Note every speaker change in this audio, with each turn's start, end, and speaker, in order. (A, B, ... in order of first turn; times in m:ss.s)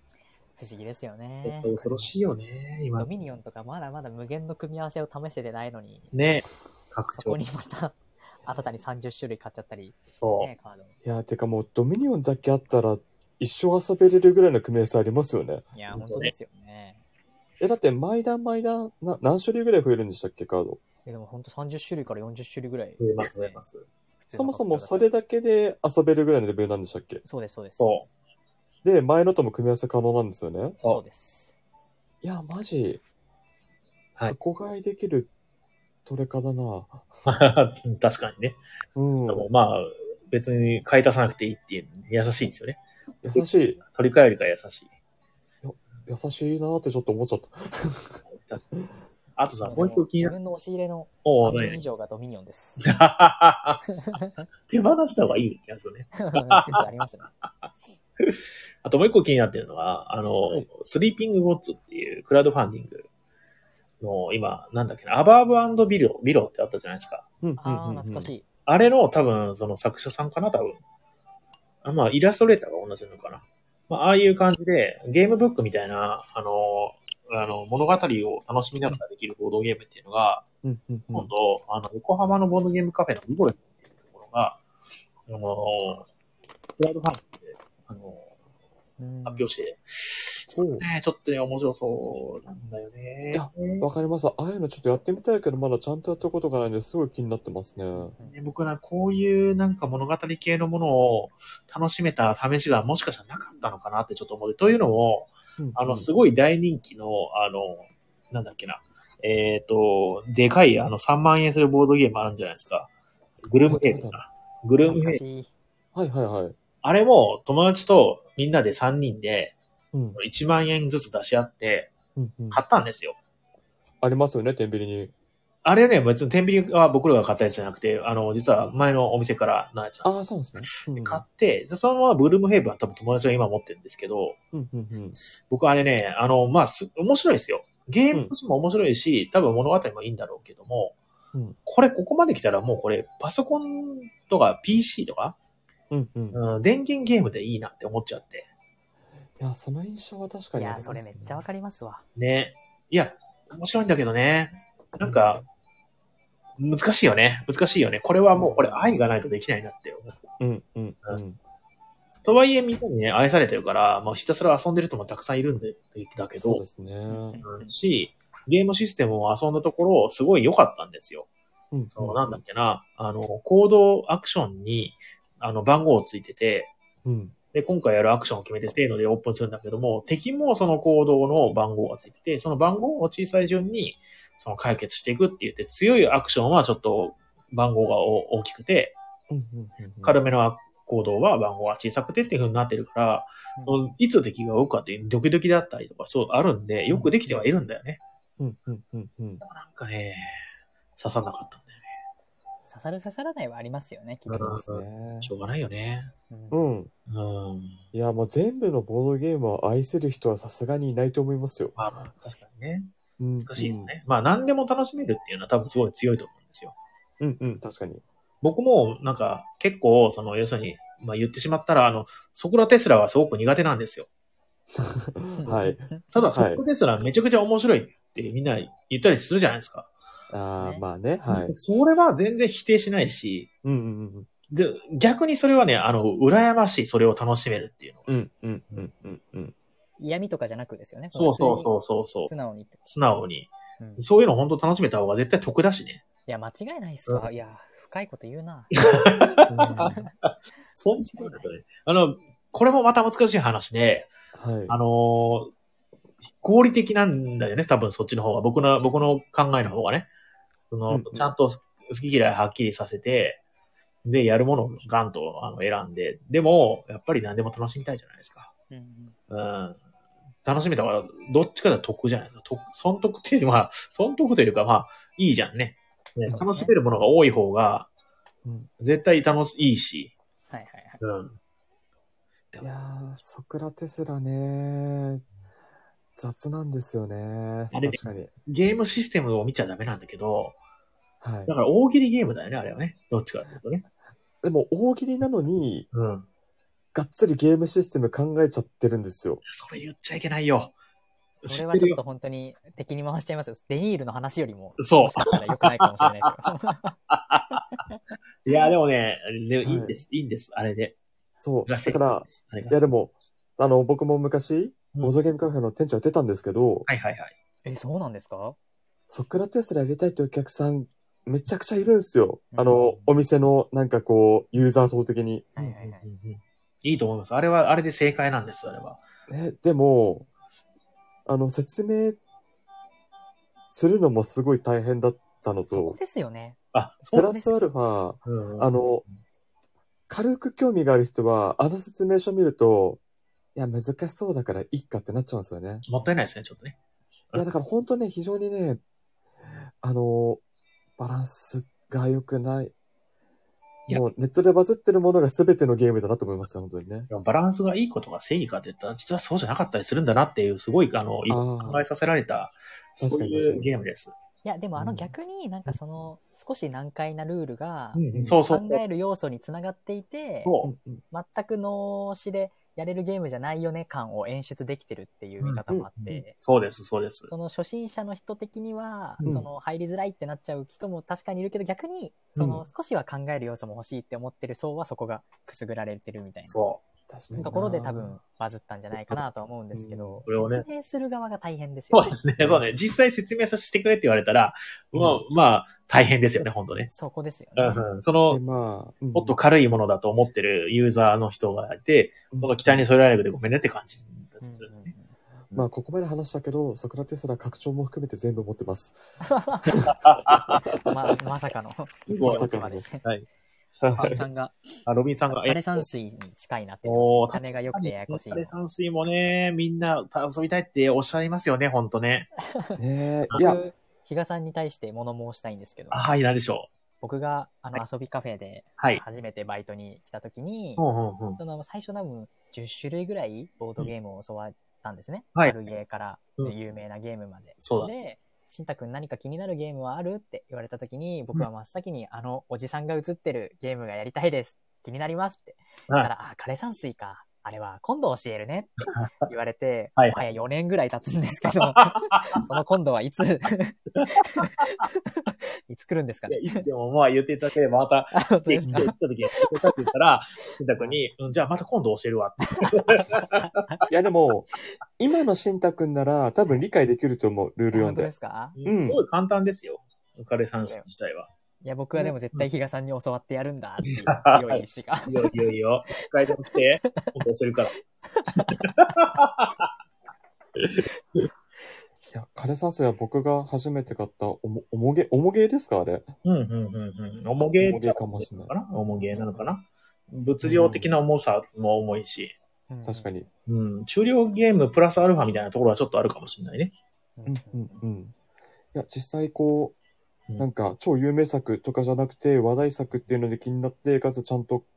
0:00.6-0:02.3 A
0:01.4-0:03.1 B
0:03.0-0:06.2 A
0:06.1-0:07.4 B
0:07.2-0:10.9 A
0:10.2-0:10.5 B
0:11.0-0:15.6 C
0:15.7-0:17.0 A
0:15.9-0:16.3 B
0:17.6-0:20.8 C
0:21.0-0:23.6 A
0:23.0-0:23.8 B
0:24.2-0:25.1 A
0:24.3-0:27.2 C
0:27.2-0:28.0 A
0:27.8-0:28.1 B
0:28.8-0:30.8 C
0:30.8-0:31.5 A
0:32.2-0:33.0 C
0:34.3-0:35.3 C
0:36.0-0:37.0 C
0:37.2-0:38.6 B
0:38.9-0:39.5 C
0:39.3-0:42.8 B
0:43.2-0:43.8 C
0:43.3-0:44.9 B
0:45.6-0:48.2 C
0:48.3-0:48.8 B
0:49.4-0:50.3 B
0:49.6-0:52.8 A
0:51.2-0:51.8 B
0:52.8-0:53.8 B
0:53.9-0:54.4 A
0:54.7-0:56.8 B
0:56.2-0:57.3 A
0:58.2-1:03.1 B
1:04.0-1:07.2 B
1:07.4-1:08.3 C
1:07.6-1:08.4 A
1:08.6-1:10.8 B
1:11.8-1:20.4 B
1:20.6-1:21.3 C
1:21.1-1:24.6 B
1:25.3-1:26.1 B
1:26.8-1:28.3 B
1:29.0-1:29.5 A
1:29.2-1:33.9 B
1:30.5-1:30.8 C
1:33.3-1:38.1 C
1:38.2-1:52.9 B
1:45.6-1:46.1 C
1:53.4-1:55.2 B
1:53.7-1:54.2 C
1:54.8-1:55.5 A
1:55.9-1:56.6 C
1:56.8-1:59.5 B
1:59.9-2:00.2 C
2:00.1-2:01.9 B
2:02.2-2:02.6 C
2:02.5-2:03.2 B
2:04.0-2:05.1 C
2:05.6-2:10.1 B
2:10.0-2:11.2 C
2:10.6-2:14.4 B
2:14.5-2:15.2 C
2:15.4-2:21.0 B
2:21.6-2:25.4 B
2:25.9-2:26.4 C
2:26.3-2:28.5 B
2:29.4-2:31.4 C
2:30.6-2:32.0 A
2:32.2-2:35.4 B
2:35.0-2:35.4 C
2:36.6-2:40.2 B
2:40.4-2:41.4 C
2:42.2-2:46.6 B
2:46.4-2:47.4 C
2:47.1-2:47.7 A
2:47.4-2:51.3 B
2:51.7-2:52.4 C
2:51.9-2:56.7 B
2:57.0-2:57.3 C
2:57.5-3:09.0 B
3:09.3-3:10.2 C
3:10.0-3:18.0 B
3:18.4-3:19.4 C
3:19.4-3:20.4 B
3:21.0-3:21.8 B
3:22.7-3:24.6 A
3:24.3-3:26.1 B
3:24.5-3:25.3 C
3:26.3-3:26.6 A
3:26.5-3:26.9 C
3:27.1-3:27.8 B
3:27.9-3:31.7 C
3:31.8-3:36.7 B
3:33.2-3:33.9 C
3:37.2-3:38.0 C
3:38.4-3:44.1 B
3:44.7-3:46.6 C
3:45.4-3:46.0 A
3:46.1-3:49.9 B
3:50.3-3:51.5 C
3:50.6-3:50.8 A
3:51.3-3:53.5 B
3:53.6-3:54.3 C
3:54.5-3:58.1 B
3:58.1-3:59.5 C
4:00.0-4:02.8 A
4:01.1-4:02.3 B
4:02.8-4:06.0 B
4:03.8-4:04.0 A
4:06.3-4:08.8 A
4:08.8-4:14.1 B
4:09.5-4:10.0 C
4:09.6-4:10.1 A
4:11.0-4:11.5 A
4:14.3-4:14.8 C
4:14.7-4:15.5 B
4:16.4-4:20.1 B
4:20.7-4:23.4 B
4:20.9-4:21.3 C
4:24.0-4:28.5 B
4:28.7-4:29.2 A
4:29.3-4:29.8 B
4:30.4-4:37.9 B
4:36.3-4:36.7 A
4:38.4-4:38.7 C
4:38.8-4:40.1 B
4:40.5-4:41.0 A
4:41.0-4:41.4 B
4:42.6-4:45.2 C
4:46.2-4:48.3 C
4:47.7-4:50.6 B
4:51.2-4:51.5 C
4:51.5-4:53.8 B
4:54.4-4:55.9 C
4:55.9-4:56.3 B
4:56.9-4:59.4 C
4:59.5-5:00.7 B
5:01.4-5:07.0 A
5:01.4-5:02.0 B
5:04.8-5:06.4 B
5:07.1-5:07.6 B
5:07.7-5:08.0 A
5:08.4-5:11.0 B
5:09.6-5:10.0 C
5:11.4-5:16.9 C
5:11.6-5:12.8 B
5:16.9-5:17.3 B
5:17.6-5:18.6 A
5:19.1-5:25.5 C
5:22.5-5:23.0 A
5:25.5-5:26.0 A
5:25.6-5:29.0 B
5:29.3-5:30.3 C
5:31.2-5:32.2 C
5:33.7-5:36.0 C
5:35.7-5:37.6 A
5:36.7-5:37.3 B
5:37.1-5:39.0 C
5:38.2-5:38.7 B
5:40.1-5:43.0 C
5:43.5-5:45.8 C
5:45.8-5:46.8 B
5:47.3-5:48.8 C
5:49.8-5:50.4 C
5:51.0-5:52.7 C
5:53.9-5:57.1 C
5:57.1-6:04.1 B
6:01.3-6:01.8 C
6:03.0-6:03.7 C
6:04.4-6:10.5 A
6:04.8-6:05.1 C
6:07.9-6:08.8 B
6:10.4-6:10.7 B
6:10.6-6:11.0 C
6:11.1-6:16.3 A
6:15.4-6:17.3 B
6:17.3-6:26.6 A
6:19.2-6:19.5 C
6:26.4-6:26.8 B
6:27.1-6:28.2 C
6:27.4-6:32.2 A
6:28.9-6:29.2 C
6:29.7-6:30.2 C
6:30.3-6:30.6 B
6:31.9-6:36.9 B
6:32.4-6:32.6 C
6:34.9-6:35.2 C
6:36.9-6:37.8 A
6:37.6-6:38.4 B
6:38.3-6:39.4 C
6:39.1-6:44.9 B
6:42.3-6:42.8 C
6:44.4-6:45.1 A
6:45.5-6:49.0 C
6:49.2-6:49.8 A
6:49.8-6:50.6 B
6:50.8-6:53.0 A
6:52.0-6:52.5 B
6:52.2-6:52.8 C
6:53.0-6:53.3 B
6:53.8-6:54.2 C
6:54.0-6:54.5 A
6:54.8-6:55.8 B
6:55.3-6:58.5 A
6:56.8-7:02.3 B
7:02.8-7:03.6 C
7:03.3-7:06.0 A
7:05.9-7:06.7 B
7:07.0-7:36.6 A
7:10.8-7:11.4 B
7:17.6-7:17.9 B
7:28.9-7:29.3 B
7:31.7-7:32.4 B
7:34.0-7:34.8 B
7:36.3-7:43.4 B
7:38.1-7:39.9 A
7:38.7-7:38.9 C
7:42.6-7:43.8 A
7:43.9-7:48.1 C
7:47.7-7:48.6 A
7:48.6-7:51.3 B
7:48.6-7:49.0 C
7:50.4-7:50.8 A
7:51.6-7:55.3 A
7:53.9-7:57.8 B
7:56.8-7:57.1 A
7:58.0-7:58.6 A
7:58.3-7:59.7 B
8:00.6-8:01.3 B
8:02.1-8:06.1 C
8:06.2-8:12.3 B
8:07.6-8:08.5 C
8:09.1-8:09.5 A
8:10.4-8:10.9 C
8:12.7-8:13.1 A
8:12.8-8:13.3 C
8:13.5-8:16.7 B
8:17.2-8:17.8 A
8:17.2-8:18.1 C
8:18.7-8:19.8 C
8:20.4-8:24.7 C